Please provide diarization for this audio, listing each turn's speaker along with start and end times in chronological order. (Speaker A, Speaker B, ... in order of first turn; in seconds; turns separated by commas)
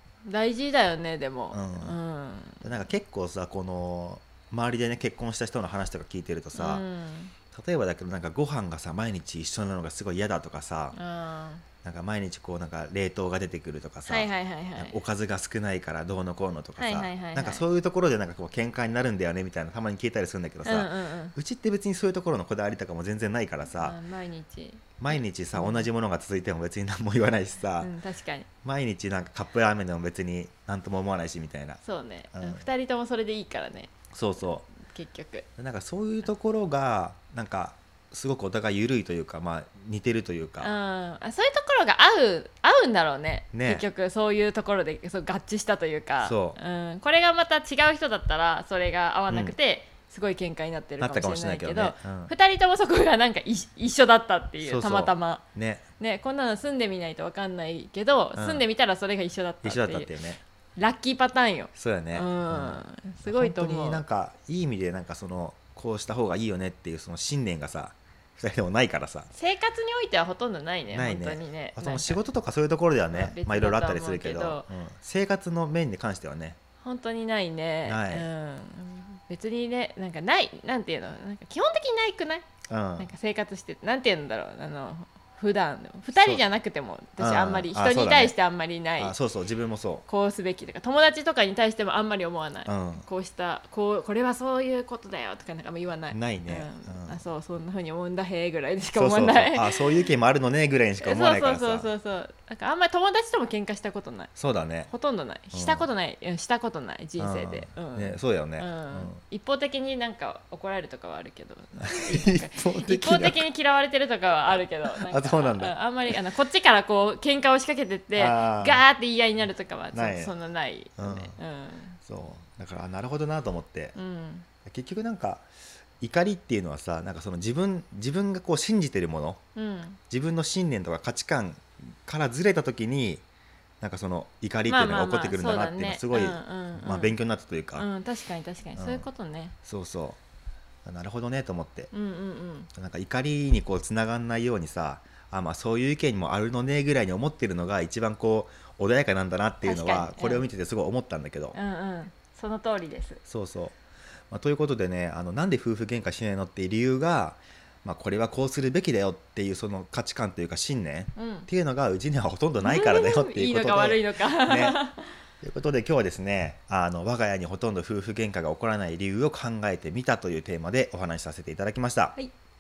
Speaker A: 0.3-2.6, Speaker B: 1.5-2.0, Speaker B: 2.6-6.8, Speaker A: 6.5-7.3, Speaker B: 7.5-11.0, Speaker A: 10.9-11.6, Speaker B: 11.8-24.0, Speaker A: 14.1-15.0, Speaker A: 16.8-17.6, Speaker A: 20.6-21.4, Speaker A: 23.7-25.9, Speaker B: 25.0-27.9, Speaker A: 27.8-28.5, Speaker B: 28.6-31.8, Speaker A: 31.8-33.9, Speaker B: 32.3-32.6, Speaker B: 34.1-34.7, Speaker A: 34.7-35.5, Speaker B: 35.6-40.7, Speaker A: 40.6-55.4, Speaker B: 43.5-43.9, Speaker B: 46.2-46.6, Speaker B: 49.3-49.5, Speaker B: 51.0-52.3, Speaker B: 54.6-55.9, Speaker A: 56.0-60.1, Speaker B: 58.4-58.6, Speaker B: 59.6-60.4, Speaker A: 60.8-64.0, Speaker B: 61.8-69.3, Speaker A: 69.3-72.2, Speaker B: 70.9-76.6, Speaker A: 73.1-74.7, Speaker A: 76.8-82.5, Speaker B: 77.8-78.3, Speaker B: 82.7-83.1, Speaker A: 83.0-89.2, Speaker B: 86.2-86.5, Speaker B: 87.2-88.3, Speaker B: 89.0-90.1, Speaker A: 90.1-100.1, Speaker B: 92.7-93.1, Speaker B: 96.1-97.2, Speaker B: 99.0-101.9, Speaker A: 101.0-104.3, Speaker B: 104.4-104.9, Speaker A: 104.9-122.0, Speaker B: 105.5-105.9, Speaker B: 107.2-109.2, Speaker B: 111.8-113.5, Speaker B: 114.9-116.2, Speaker B: 118.2-118.8, Speaker B: 119.9-120.3, Speaker B: 121.0-121.4, Speaker B: 122.1-124.0, Speaker A: 124.0-124.5, Speaker B: 124.7-125.5, Speaker B: 126.0-129.4, Speaker A: 129.6-130.0, Speaker B: 130.1-133.2, Speaker B: 133.8-137.9, Speaker A: 134.7-137.2, Speaker A: 137.8-139.6, Speaker B: 138.8-139.1, Speaker B: 139.7-140.2, Speaker B: 140.8-141.9, Speaker A: 141.9-142.7, Speaker B: 142.8-151.6, Speaker A: 149.6-150.5, Speaker A: 151.5-153.2, Speaker B: 153.3-153.8, Speaker B: 154.3-164.8, Speaker A: 161.2-161.5, Speaker A: 162.6-165.2, Speaker B: 165.4-172.2